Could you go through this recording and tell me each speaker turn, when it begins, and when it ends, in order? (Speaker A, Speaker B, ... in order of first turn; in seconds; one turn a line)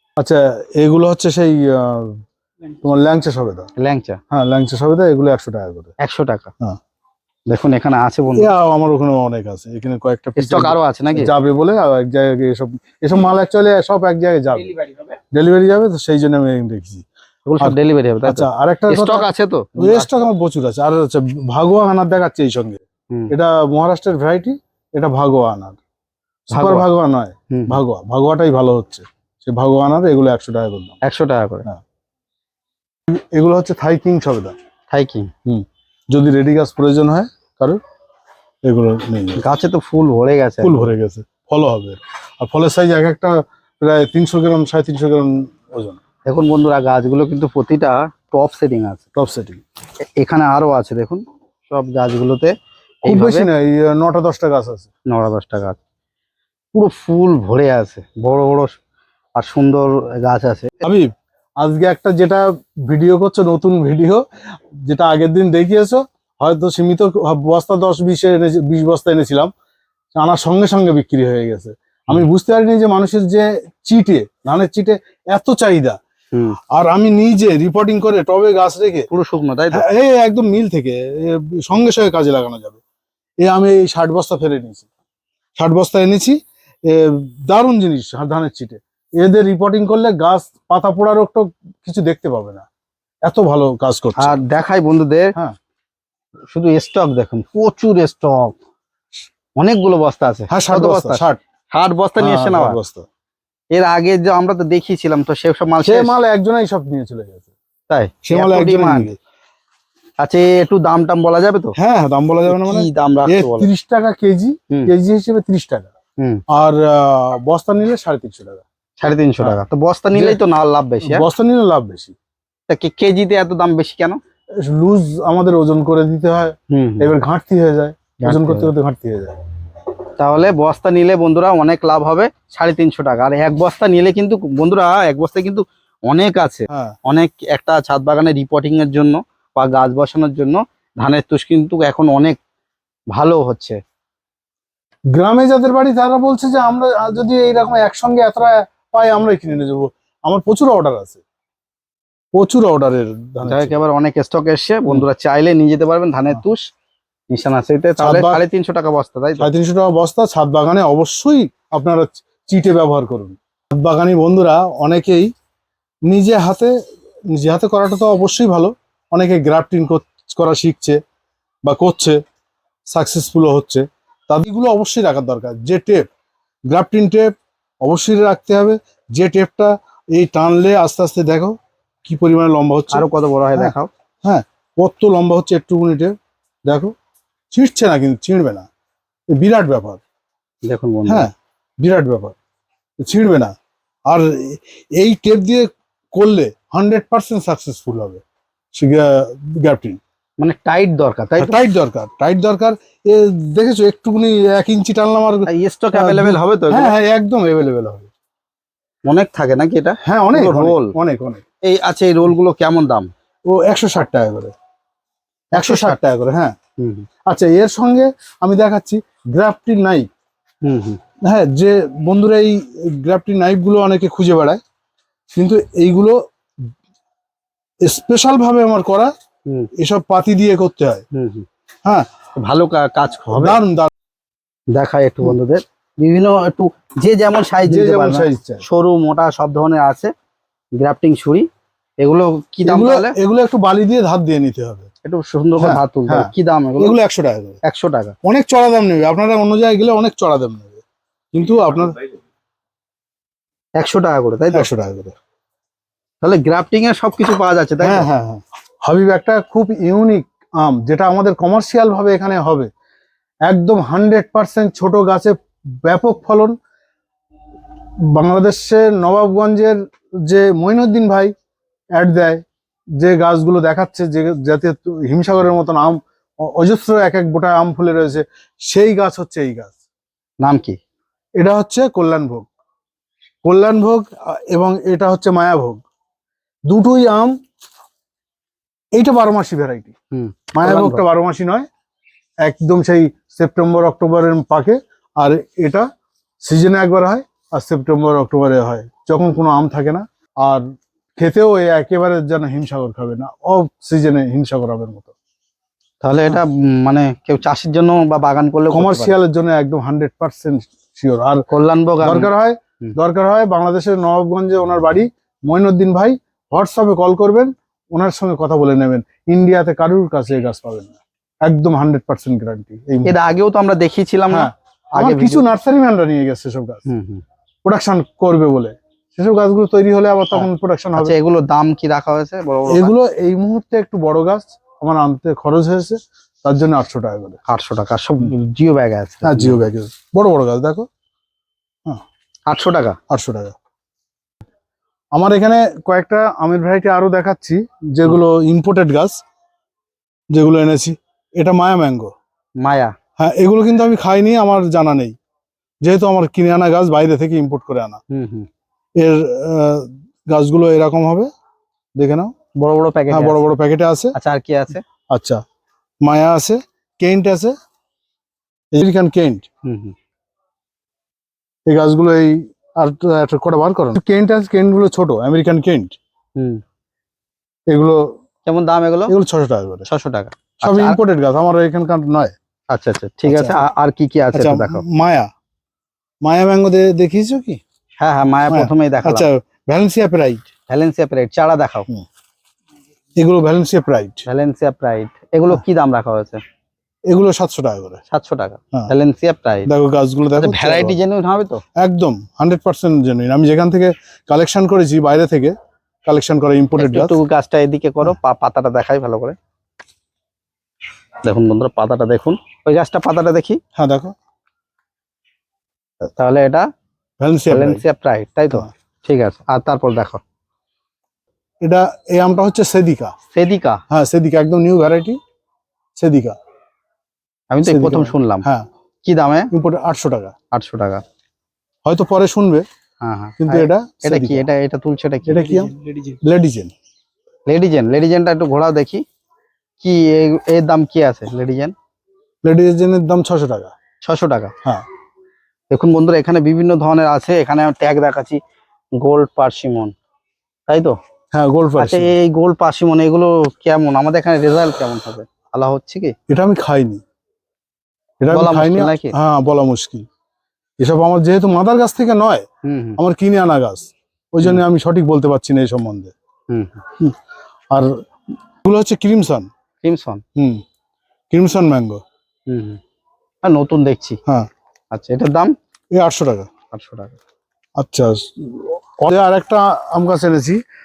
Speaker A: 0.2-2.2
Speaker A: 2.8-3.7
Speaker B: 3.8-4.2
Speaker A: 4.3-5.9
Speaker B: 6.0-6.5
Speaker B: 7.5-8.5
Speaker A: 8.3-14.8
Speaker B: 10.4-11.3
Speaker A: 15.3-17.0
Speaker B: 17.4-20.1
Speaker A: 17.6-25.8
Speaker A: 26.5-31.0
Speaker B: 26.5-26.9
Speaker B: 27.5-27.8
Speaker B: 31.0-31.7
Speaker A: 33.1-34.5
Speaker B: 34.9-35.3
Speaker A: 35.5-37.8
Speaker A: 38.6-39.4
Speaker B: 39.4-40.9
Speaker A: 40.6-46.0
Speaker B: 46.3-49.0
Speaker A: 49.1-49.6
Speaker B: 50.0-53.5
Speaker A: 53.0-54.9
Speaker B: 55.1-55.8
Speaker B: 56.7-58.7
Speaker B: 59.4-60.8
Speaker A: 60.8-64.2
Speaker A: 64.8-69.5
Speaker A: 70.2-76.0
Speaker B: 76.3-76.6
Speaker A: 76.7-79.1
Speaker B: 79.1-79.8
Speaker A: 79.7-82.8
Speaker A: 83.4-84.9
Speaker A: 85.6-86.4
Speaker A: 86.9-92.6
Speaker A: 93.2-94.4
Speaker B: 94.2-95.3
Speaker B: 96.5-98.5
Speaker B: 99.6-102.8
Speaker A: 100.5-101.4
Speaker A: 102.2-103.0
Speaker B: 103.7-106.2
Speaker A: 105.8-107.5
Speaker B: 107.9-109.1
Speaker A: 108.2-109.2
Speaker B: 110.2-111.7
Speaker A: 111.8-115.9
Speaker B: 112.5-113.7
Speaker A: 116.5-118.6
Speaker B: 119.0-121.2
Speaker A: 120.1-120.4
Speaker A: 121.0-122.1
Speaker B: 122.7-124.2
Speaker A: 124.6-129.3
Speaker B: 126.7-127.1
Speaker B: 128.2-128.7
Speaker B: 130.2-142.4
Speaker A: 136.7-136.9
Speaker B: 143.1-143.8
Speaker A: 145.1-151.2
Speaker A: 152.3-153.8
Speaker B: 153.4-156.7
Speaker B: 157.3-159.5
Speaker A: 158.0-158.4
Speaker A: 159.4-165.3
Speaker A: 166.1-166.7
Speaker A: 167.3-171.0
Speaker A: 171.6-172.2
Speaker A: 172.9-176.1
Speaker A: 176.7-186.9
Speaker B: 182.9-183.9
Speaker A: 187.5-188.7
Speaker A: 189.3-190.0
Speaker B: 190.6-191.3
Speaker A: 191.1-192.3
Speaker A: 193.0-193.5
Speaker A: 194.1-198.2
Speaker A: 198.7-200.0
Speaker B: 200.4-201.5
Speaker A: 201.4-208.1
Speaker B: 205.5-206.9
Speaker B: 209.0-210.9
Speaker A: 210.0-211.4
Speaker B: 211.6-213.1
Speaker A: 213.5-214.5
Speaker B: 215.5-216.0
Speaker A: 215.5-216.6
Speaker B: 216.8-217.1
Speaker A: 217.3-220.1
Speaker B: 220.6-221.0
Speaker A: 221.2-224.6
Speaker A: 225.4-226.2
Speaker A: 227.8-229.1
Speaker A: 229.8-231.0
Speaker B: 231.1-231.4
Speaker B: 232.4-233.6
Speaker A: 233.3-233.9
Speaker B: 234.7-240.1
Speaker A: 237.7-238.6
Speaker B: 240.8-241.5
Speaker B: 242.0-243.2
Speaker A: 242.6-244.9
Speaker B: 245.0-247.0
Speaker A: 245.6-247.6
Speaker B: 247.6-248.1
Speaker A: 248.2-250.8
Speaker A: 251.3-252.1
Speaker B: 253.8-254.7
Speaker A: 254.5-255.1
Speaker B: 256.2-258.1
Speaker A: 257.8-262.7
Speaker A: 263.5-266.5
Speaker A: 268.1-271.3
Speaker A: 272.0-272.4
Speaker A: 273.0-279.8
Speaker B: 280.4-280.8
Speaker A: 281.4-282.5
Speaker A: 283.4-285.8
Speaker A: 286.7-287.3
Speaker A: 288.9-289.9
Speaker B: 290.1-291.0
Speaker A: 290.5-291.7
Speaker A: 292.4-295.9
Speaker A: 296.4-300.6
Speaker A: 301.2-305.1
Speaker B: 306.0-309.1
Speaker A: 308.7-311.4
Speaker B: 311.5-312.3
Speaker A: 312.0-323.1
Speaker B: 323.1-325.4
Speaker A: 324.3-326.8
Speaker B: 326.9-327.2
Speaker A: 327.6-331.1
Speaker B: 330.3-332.9
Speaker A: 332.7-337.4
Speaker B: 337.5-339.6
Speaker A: 339.2-340.9
Speaker B: 342.5-343.0
Speaker A: 343.1-343.5
Speaker A: 345.1-349.2
Speaker A: 350.3-352.1
Speaker B: 352.6-352.9
Speaker A: 353.2-355.1
Speaker A: 355.8-358.0
Speaker B: 358.1-358.5
Speaker A: 359.0-361.3
Speaker A: 362.0-362.3
Speaker B: 362.6-363.4
Speaker A: 363.1-364.1
Speaker B: 364.1-364.8
Speaker A: 365.1-365.4
Speaker A: 366.0-367.5
Speaker A: 368.7-369.5
Speaker B: 369.6-369.9
Speaker A: 371.7-375.9
Speaker B: 376.4-376.6
Speaker A: 377.7-378.1
Speaker B: 378.4-379.1
Speaker A: 379.1-379.9
Speaker B: 379.9-381.0
Speaker A: 380.6-382.3
Speaker B: 382.7-384.8
Speaker A: 383.3-383.6
Speaker A: 384.3-385.3
Speaker A: 386.2-387.6
Speaker B: 388.0-389.3
Speaker A: 388.5-390.5
Speaker B: 390.7-391.9
Speaker A: 393.2-394.2
Speaker B: 394.3-396.4
Speaker A: 397.1-398.0
Speaker B: 398.1-399.7
Speaker A: 399.7-401.0
Speaker B: 400.4-401.6
Speaker A: 401.8-405.5
Speaker A: 406.0-407.1
Speaker B: 406.8-409.4
Speaker B: 411.2-413.6
Speaker A: 413.7-414.1
Speaker B: 416.1-416.7
Speaker A: 417.2-417.8
Speaker B: 417.5-420.2
Speaker A: 421.6-423.1
Speaker B: 423.3-423.8
Speaker A: 423.9-425.2
Speaker A: 426.0-426.3
Speaker B: 427.5-428.5
Speaker A: 427.6-428.7
Speaker B: 429.0-429.5
Speaker A: 429.5-430.3
Speaker B: 430.5-431.0
Speaker A: 431.8-432.6
Speaker B: 433.0-435.9
Speaker A: 433.4-434.4
Speaker A: 435.3-436.7
Speaker B: 437.5-439.0
Speaker B: 439.8-441.7
Speaker A: 442.4-443.7
Speaker B: 444.0-444.5
Speaker B: 445.7-448.4
Speaker B: 448.9-449.9
Speaker B: 450.7-451.0
Speaker A: 451.3-452.1
Speaker B: 451.8-456.1
Speaker A: 456.3-457.0
Speaker A: 458.2-460.0
Speaker B: 458.3-459.1
Speaker A: 460.8-462.4
Speaker B: 462.6-463.0
Speaker A: 463.0-466.1
Speaker B: 466.5-466.8
Speaker A: 468.6-469.5
Speaker B: 469.8-470.2
Speaker A: 470.4-470.6
Speaker A: 471.3-472.0
Speaker B: 472.5-472.8
Speaker B: 473.4-474.2
Speaker B: 474.9-475.5
Speaker A: 475.9-476.5
Speaker B: 476.7-477.2
Speaker A: 477.8-480.6